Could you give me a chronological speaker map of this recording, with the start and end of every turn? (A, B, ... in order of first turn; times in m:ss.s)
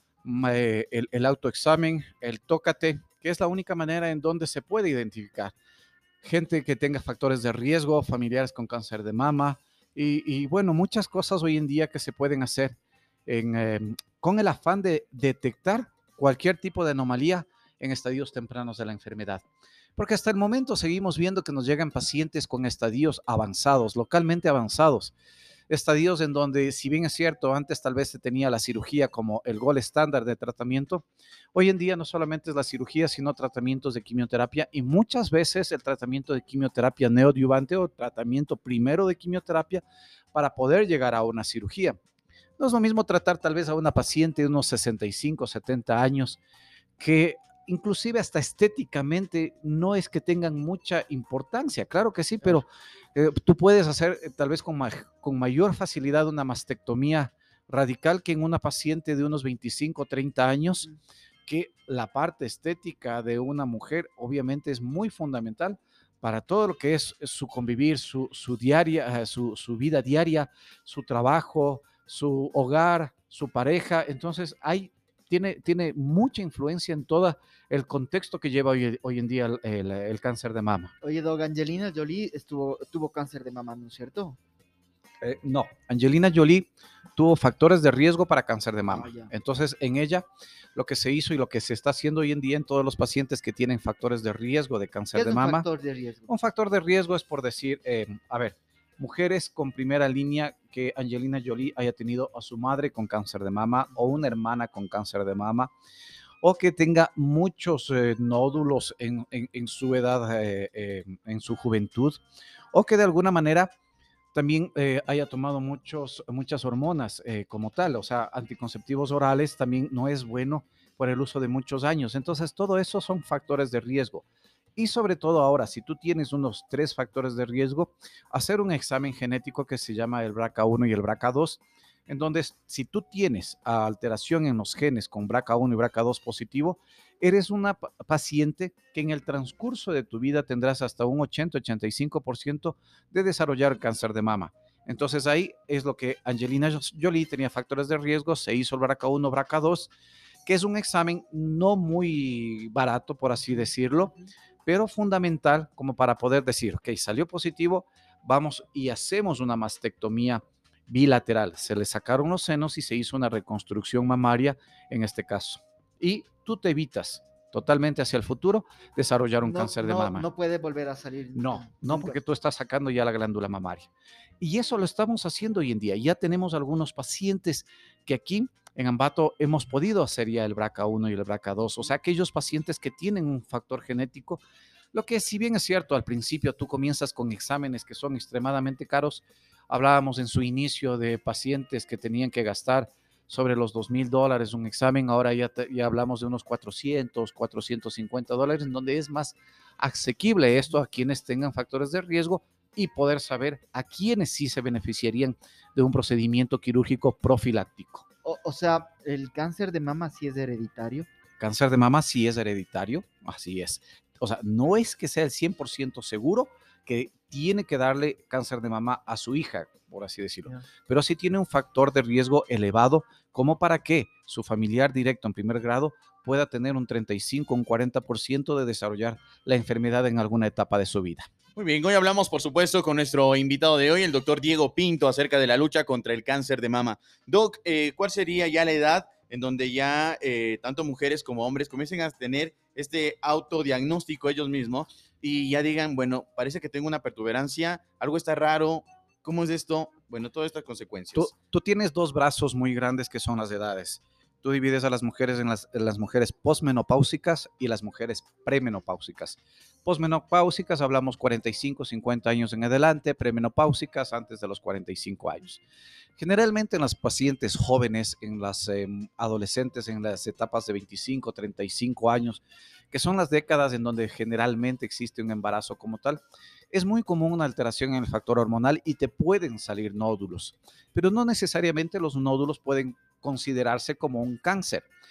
0:00.2-0:05.5 A
0:06.2-0:12.8 A
0:13.3-0:19.4 A
0:20.0-0:25.1 A
0:25.7-0:42.0 A
0:42.6-0:46.4 A
0:47.0-1:00.9 A
1:01.4-1:20.9 A
1:21.0-1:24.4 B
1:25.2-1:35.7 A
1:28.9-1:29.3 B
1:35.1-1:36.3 B
1:36.3-1:45.7 A
1:46.4-1:52.2 A
1:52.7-1:53.7 A
1:54.3-2:04.2 A
2:04.8-2:29.9 A
2:30.4-2:34.1 A
2:34.6-2:50.3 A
2:49.4-2:52.2 B
2:51.3-2:53.9 A
2:54.4-3:04.4 A
3:04.9-3:28.0 A
3:28.2-3:31.1 B
3:31.4-3:51.3 A
3:51.6-4:11.3 C
4:11.1-4:25.6 A
4:26.2-4:44.8 A